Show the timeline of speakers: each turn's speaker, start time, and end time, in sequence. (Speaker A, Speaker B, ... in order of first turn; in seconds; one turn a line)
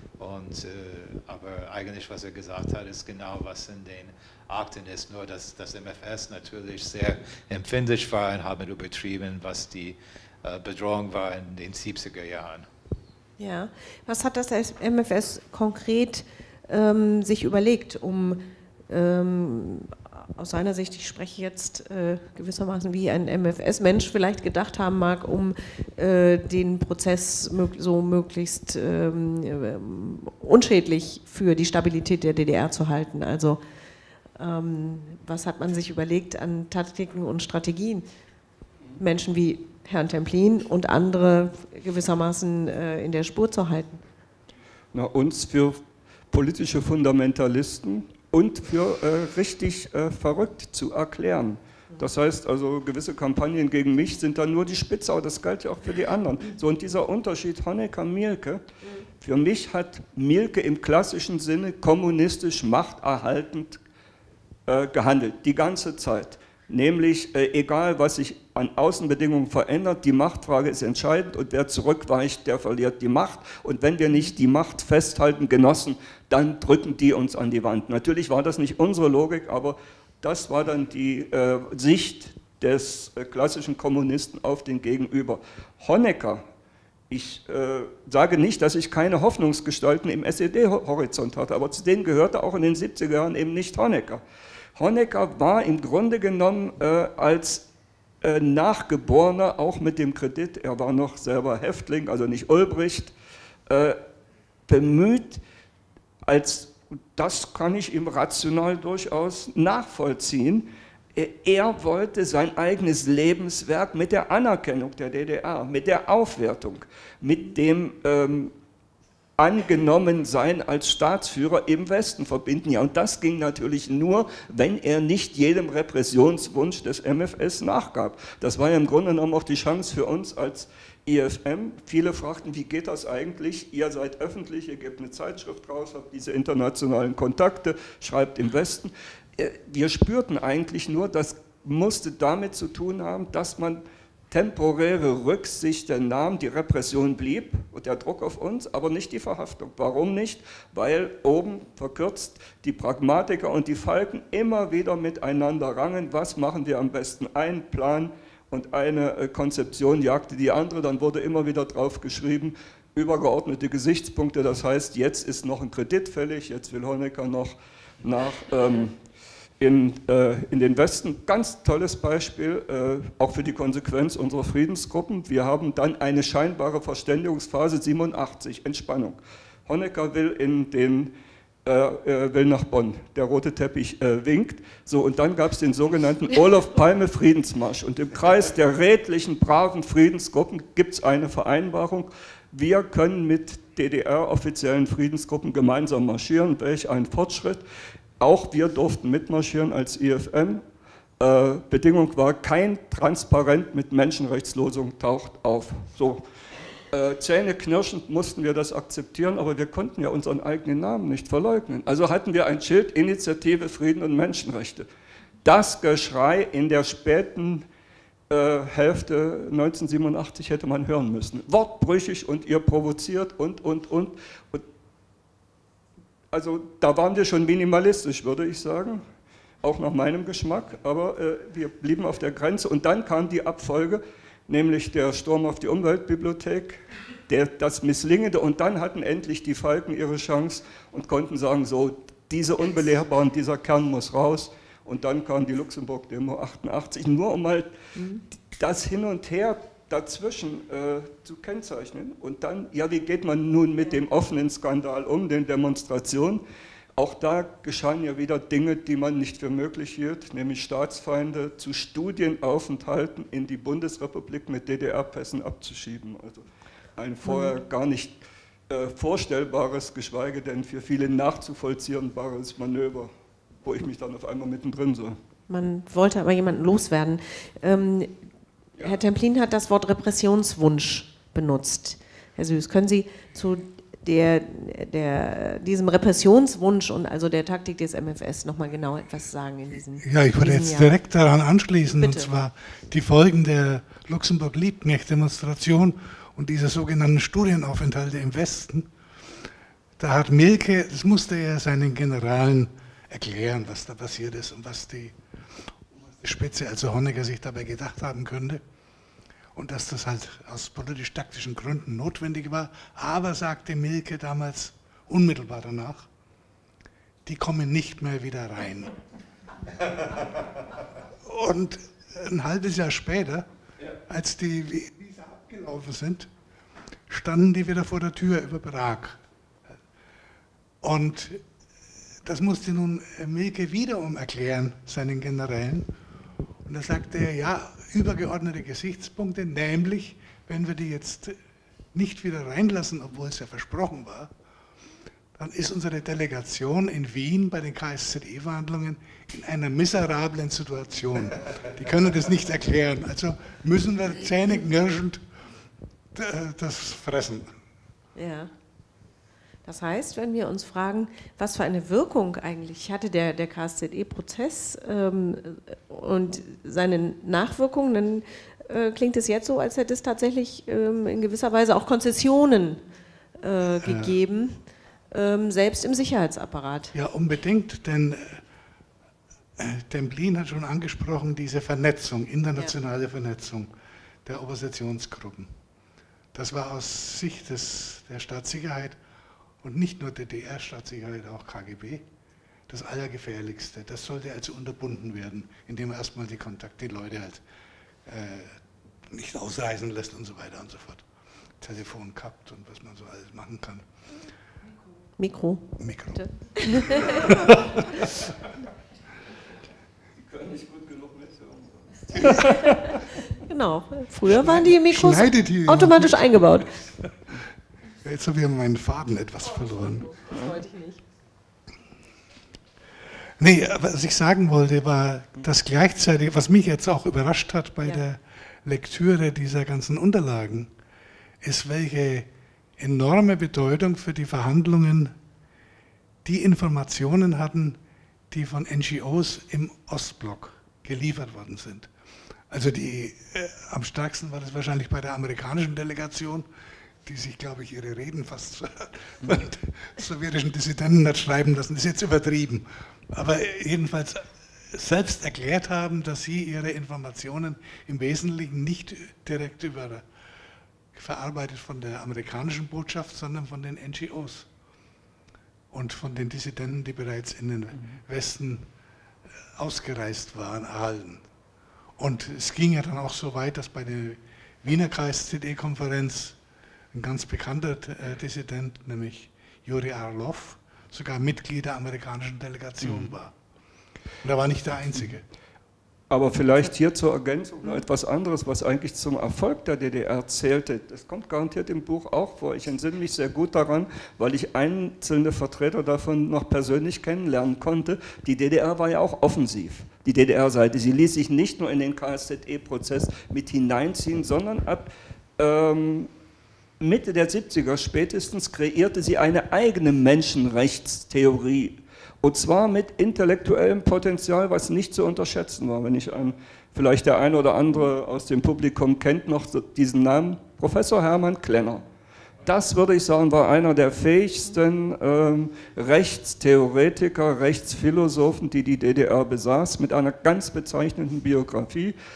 Speaker A: 0.2-12.7
Speaker B: 13.4-33.6
Speaker B: 34.4-38.0
Speaker B: 39.0-44.0
Speaker C: 44.9-45.8
Speaker C: 46.3-58.6
Speaker C: 59.2-63.8
Speaker C: 64.7-86.5
Speaker C: 87.1-94.2
Speaker C: 94.8-97.7
Speaker C: 98.2-103.1
Speaker C: 103.7-104.0
Speaker C: 104.7-105.4
Speaker C: 106.3-118.5
Speaker C: 119.4-169.0
Speaker C: 169.6-181.1
Speaker C: 181.7-197.6
Speaker C: 198.2-200.6
Speaker C: 201.2-206.2
Speaker C: 206.9-214.9
Speaker C: 215.4-217.7
Speaker C: 218.3-224.7
Speaker C: 226.3-229.0
Speaker C: 229.6-247.7
Speaker B: 248.0-248.2
Speaker C: 248.6-256.4
Speaker C: 257.0-266.5
Speaker C: 267.0-268.2
Speaker B: 267.3-267.6
Speaker C: 268.7-273.1
Speaker C: 273.6-275.2
Speaker B: 275.5-278.2
Speaker B: 278.8-290.9
Speaker D: 290.0-298.9
Speaker B: 292.0-292.3
Speaker D: 300.0-305.2
Speaker D: 306.2-308.6
Speaker D: 309.6-316.1
Speaker D: 317.2-318.9
Speaker D: 321.2-323.5
Speaker D: 324.1-326.3
Speaker D: 327.1-329.2
Speaker D: 330.8-331.4
Speaker D: 332.2-335.9
Speaker D: 336.6-341.4
Speaker D: 341.9-344.3
Speaker D: 345.4-355.2
Speaker D: 356.1-357.5
Speaker B: 358.2-358.5
Speaker B: 359.6-372.8
Speaker B: 373.4-376.9
Speaker D: 373.8-374.1
Speaker D: 376.9-378.4
Speaker D: 379.6-383.7
Speaker D: 384.2-385.5
Speaker D: 386.3-389.0
Speaker D: 389.6-392.1
Speaker D: 392.7-397.4
Speaker D: 398.1-401.1
Speaker D: 401.6-403.9
Speaker B: 405.2-407.4
Speaker D: 405.8-408.1
Speaker C: 410.3-413.0
Speaker B: 412.4-416.7
Speaker D: 414.2-416.3
Speaker D: 418.0-420.2
Speaker B: 420.2-421.0
Speaker D: 423.4-430.7
Speaker D: 431.4-435.1
Speaker D: 436.2-437.8
Speaker D: 438.3-441.9
Speaker D: 442.5-446.5
Speaker D: 447.1-460.1
Speaker D: 460.9-464.5
Speaker D: 465.7-468.7
Speaker D: 469.6-471.2
Speaker D: 472.0-476.4
Speaker D: 476.9-483.3
Speaker C: 482.8-483.1
Speaker D: 484.2-485.2
Speaker C: 486.1-506.1
Speaker C: 506.8-521.8
Speaker C: 522.4-532.0